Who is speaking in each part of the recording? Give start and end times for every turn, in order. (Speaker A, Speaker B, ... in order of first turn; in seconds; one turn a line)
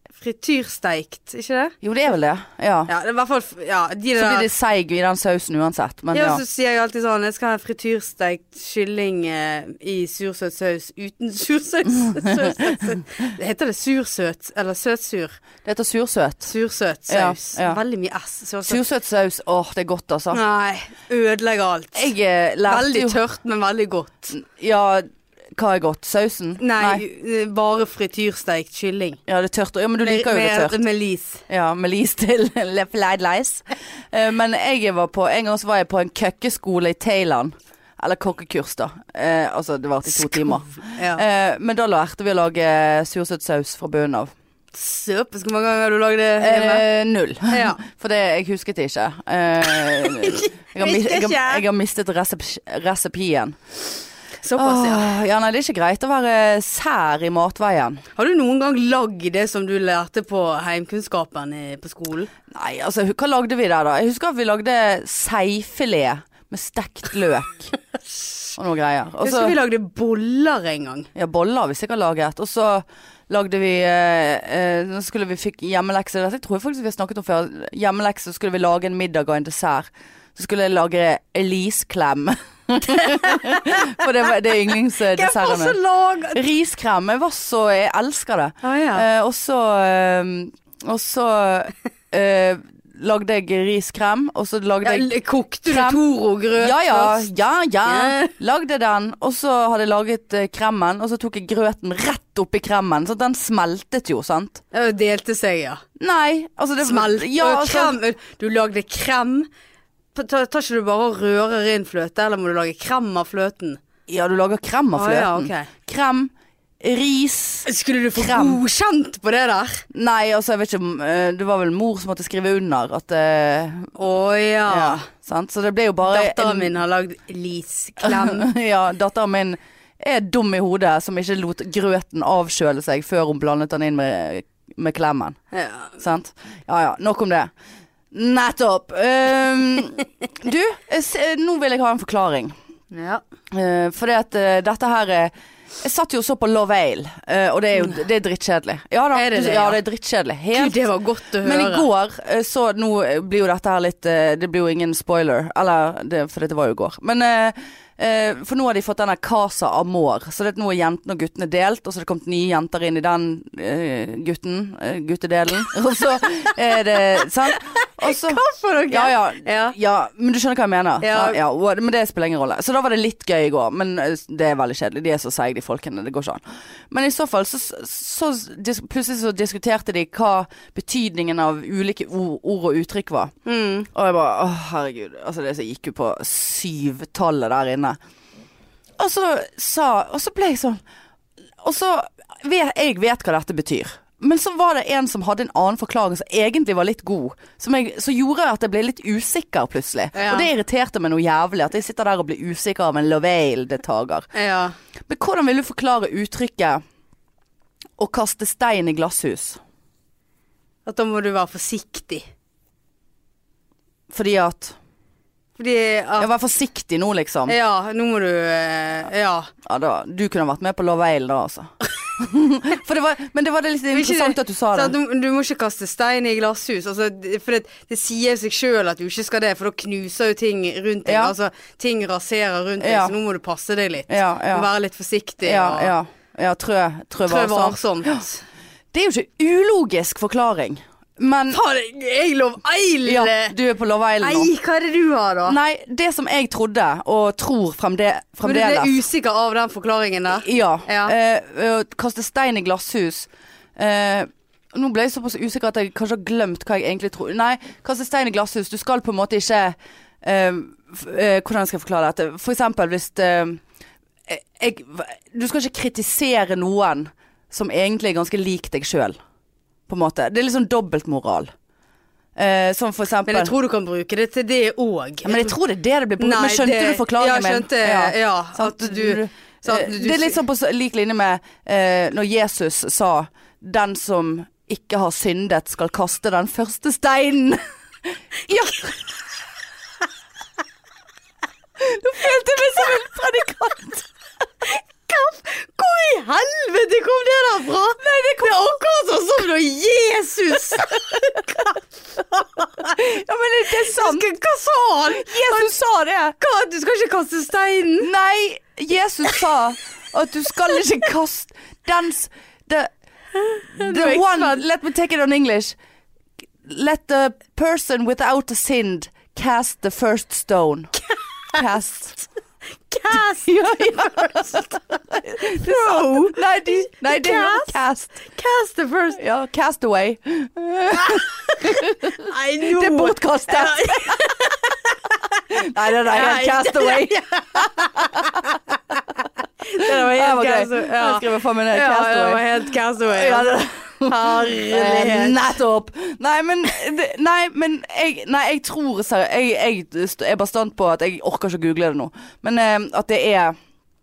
Speaker A: 0.2-1.8
Speaker B: 1.8-2.9
Speaker A: 2.9-4.5
Speaker B: 4.1-6.4
Speaker A: 6.1-15.4
Speaker B: 12.0-12.6
Speaker B: 15.6-16.5
Speaker A: 16.4-18.8
Speaker B: 17.1-17.8
Speaker B: 18.6-20.4
Speaker A: 20.3-22.1
Speaker B: 21.9-23.2
Speaker A: 22.6-24.4
Speaker B: 24.3-25.0
Speaker B: 25.6-27.0
Speaker A: 26.6-29.2
Speaker B: 29.3-30.8
Speaker A: 30.0-31.4
Speaker B: 31.5-44.3
Speaker A: 40.1-41.2
Speaker A: 44.7-46.8
Speaker B: 46.4-53.6
Speaker A: 47.5-47.8
Speaker A: 49.9-51.6
Speaker A: 54.4-55.1
Speaker B: 54.5-58.0
Speaker A: 58.1-62.3
Speaker B: 62.5-67.7
Speaker B: 68.5-69.5
Speaker A: 69.2-71.1
Speaker B: 71.1-85.8
Speaker A: 83.2-83.6
Speaker A: 85.1-86.4
Speaker B: 86.3-95.1
Speaker A: 88.6-89.0
Speaker A: 94.8-97.2
Speaker B: 95.7-96.0
Speaker B: 96.5-104.6
Speaker A: 97.8-98.3
Speaker A: 104.7-105.8
Speaker B: 106.0-108.0
Speaker A: 106.8-109.5
Speaker A: 110.1-113.8
Speaker B: 114.1-118.6
Speaker A: 114.9-115.7
Speaker A: 117.7-119.8
Speaker B: 119.9-123.9
Speaker A: 124.0-125.1
Speaker B: 124.7-126.7
Speaker A: 126.0-128.5
Speaker B: 128.0-135.4
Speaker A: 135.5-135.9
Speaker B: 136.0-137.5
Speaker B: 138.1-142.5
Speaker A: 142.9-143.2
Speaker B: 143.5-150.8
Speaker A: 149.1-149.8
Speaker A: 150.5-151.9
Speaker B: 151.4-183.3
Speaker A: 167.5-169.8
Speaker A: 171.0-171.4
Speaker A: 183.4-183.9
Speaker B: 183.9-188.0
Speaker B: 189.0-190.8
Speaker B: 191.6-204.3
Speaker A: 200.1-200.5
Speaker A: 204.3-204.8
Speaker B: 205.1-206.8
Speaker B: 208.0-209.6
Speaker A: 210.8-212.3
Speaker B: 214.1-214.8
Speaker A: 215.6-216.3
Speaker B: 216.2-217.5
Speaker A: 217.5-219.5
Speaker B: 219.6-224.9
Speaker A: 223.9-235.9
Speaker B: 231.1-231.3
Speaker B: 232.8-233.1
Speaker B: 234.1-234.7
Speaker B: 235.4-238.2
Speaker A: 237.2-238.4
Speaker B: 238.9-241.6
Speaker A: 241.5-243.5
Speaker B: 243.1-244.5
Speaker A: 244.2-245.6
Speaker B: 245.4-249.0
Speaker A: 248.4-251.1
Speaker B: 250.3-263.6
Speaker B: 264.3-269.2
Speaker B: 269.9-271.5
Speaker B: 272.4-273.5
Speaker A: 273.3-275.6
Speaker B: 275.2-288.9
Speaker A: 276.2-280.4
Speaker B: 291.8-294.0
Speaker A: 294.6-303.0
Speaker B: 302.9-304.2
Speaker A: 303.7-305.7
Speaker B: 305.2-306.4
Speaker A: 306.4-308.1
Speaker B: 308.0-312.9
Speaker A: 313.3-314.6
Speaker B: 313.7-315.8
Speaker B: 316.6-320.9
Speaker A: 321.1-321.6
Speaker B: 321.5-322.2
Speaker A: 322.9-324.6
Speaker B: 323.1-328.1
Speaker A: 325.4-329.2
Speaker B: 329.1-334.3
Speaker A: 330.9-335.4
Speaker B: 335.5-338.4
Speaker A: 336.0-339.0
Speaker A: 339.6-345.5
Speaker B: 339.8-342.4
Speaker B: 343.0-353.5